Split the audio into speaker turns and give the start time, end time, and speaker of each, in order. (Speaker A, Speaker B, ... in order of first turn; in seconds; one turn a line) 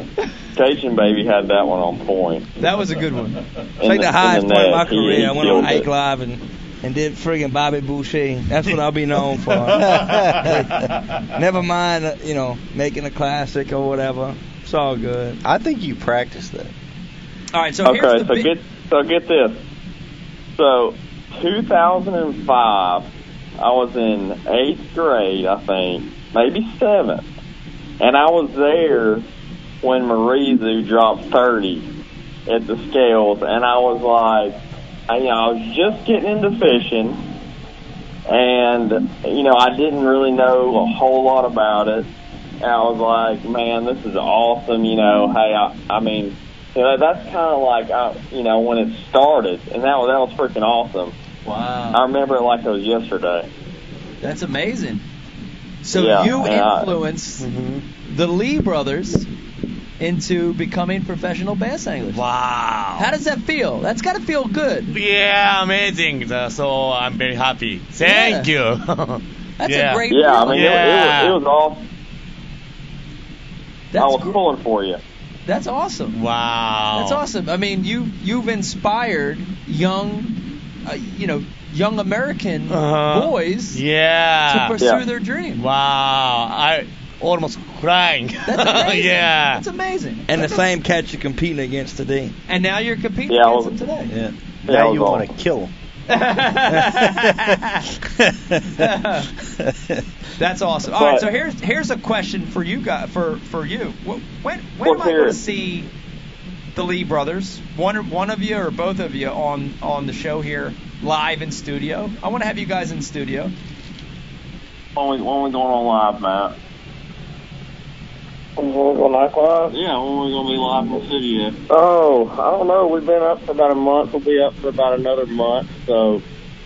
Speaker A: 0.5-2.5
Speaker B: 2.6-3.4
Speaker A: 3.8-5.9
Speaker C: 3.8-15.4
Speaker D: 9.7-10.8
Speaker D: 15.4-16.7
Speaker B: 17.5-18.5
Speaker A: 17.8-19.6
Speaker A: 20.6-23.1
Speaker A: 23.6-27.2
Speaker A: 28.0-29.2
Speaker A: 29.8-31.9
Speaker A: 32.5-34.6
Speaker A: 35.1-37.2
Speaker A: 38.3-42.1
Speaker A: 42.6-51.1
Speaker B: 51.5-52.0
Speaker A: 51.9-53.5
Speaker B: 54.2-55.0
Speaker B: 55.8-57.4
Speaker A: 55.9-56.9
Speaker B: 58.1-59.3
Speaker B: 60.0-62.2
Speaker E: 62.1-63.1
Speaker B: 63.0-64.9
Speaker E: 64.9-71.4
Speaker B: 68.0-68.5
Speaker B: 69.6-70.8
Speaker A: 70.1-71.8
Speaker B: 73.9-74.4
Speaker A: 74.0-75.0
Speaker B: 75.5-76.2
Speaker E: 76.1-77.2
Speaker B: 76.9-83.8
Speaker E: 82.7-84.8
Speaker B: 84.5-85.6
Speaker E: 85.5-89.6
Speaker B: 88.4-90.5
Speaker C: 90.3-92.3
Speaker B: 92.5-94.1
Speaker A: 93.3-93.7
Speaker D: 94.1-95.7
Speaker A: 94.7-95.3
Speaker B: 96.1-97.8
Speaker D: 96.8-97.5
Speaker D: 98.2-98.7
Speaker B: 98.8-99.3
Speaker D: 99.7-100.0
Speaker B: 100.4-105.9
Speaker A: 100.9-101.3
Speaker A: 104.8-105.4
Speaker B: 106.8-113.5
Speaker A: 115.0-116.5
Speaker F: 118.6-119.7
Speaker A: 119.7-121.6
Speaker F: 121.7-124.6
Speaker A: 123.4-126.2